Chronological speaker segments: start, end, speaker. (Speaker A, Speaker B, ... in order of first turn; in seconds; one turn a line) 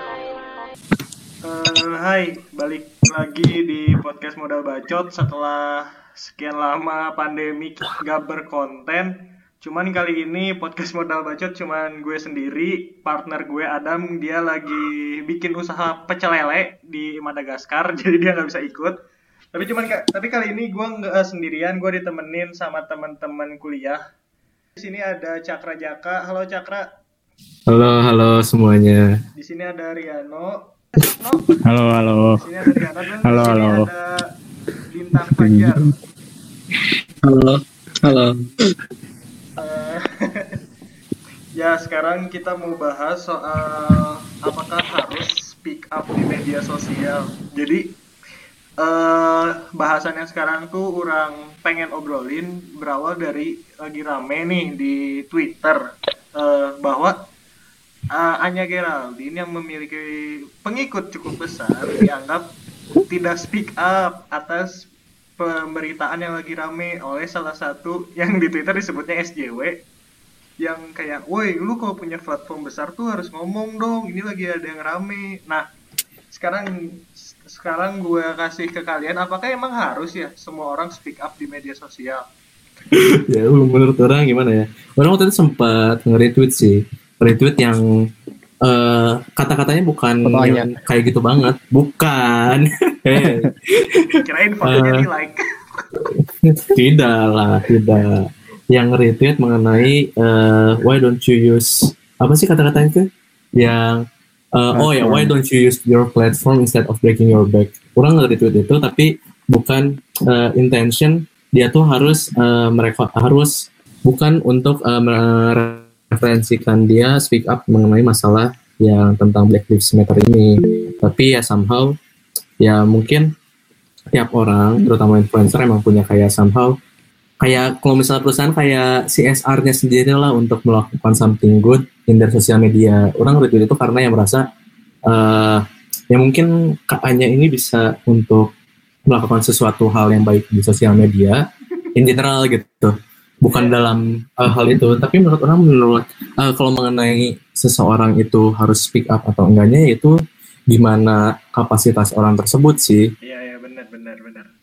Speaker A: 1.4-9.1
Speaker A: 9.6-18.9
Speaker A: 19.5-24.0
Speaker A: 24.8-26.8
Speaker B: 27.7-29.1
Speaker A: 27.7-28.0
Speaker A: 29.4-31.6
Speaker C: 31.6-32.4
Speaker A: 32.3-34.2
Speaker C: 33.2-33.9
Speaker A: 34.9-35.9
Speaker C: 35.4-35.7
Speaker B: 37.2-38.4
Speaker A: 39.6-40.0
Speaker A: 41.6-47.8
Speaker A: 48.8-55.8
Speaker A: 56.4-57.1
Speaker A: 58.1-62.4
Speaker A: 63.1-64.8
Speaker A: 65.4-69.7
Speaker A: 70.6-75.6
Speaker A: 76.3-76.7
Speaker A: 77.5-82.2
Speaker B: 83.0-87.8
Speaker B: 88.6-94.1
Speaker C: 90.2-90.7
Speaker C: 93.2-93.5
Speaker A: 94.2-95.4
Speaker B: 94.6-95.0
Speaker B: 96.7-104.0
Speaker B: 104.5-120.5
Speaker C: 104.7-105.3
Speaker B: 121.0-121.9
Speaker B: 122.6-123.3
Speaker B: 124.1-126.7
Speaker B: 127.4-134.4
Speaker B: 135.1-138.5
Speaker B: 139.1-141.4
Speaker B: 141.9-150.1
Speaker A: 143.5-143.8
Speaker B: 150.7-153.0
Speaker A: 153.2-154.5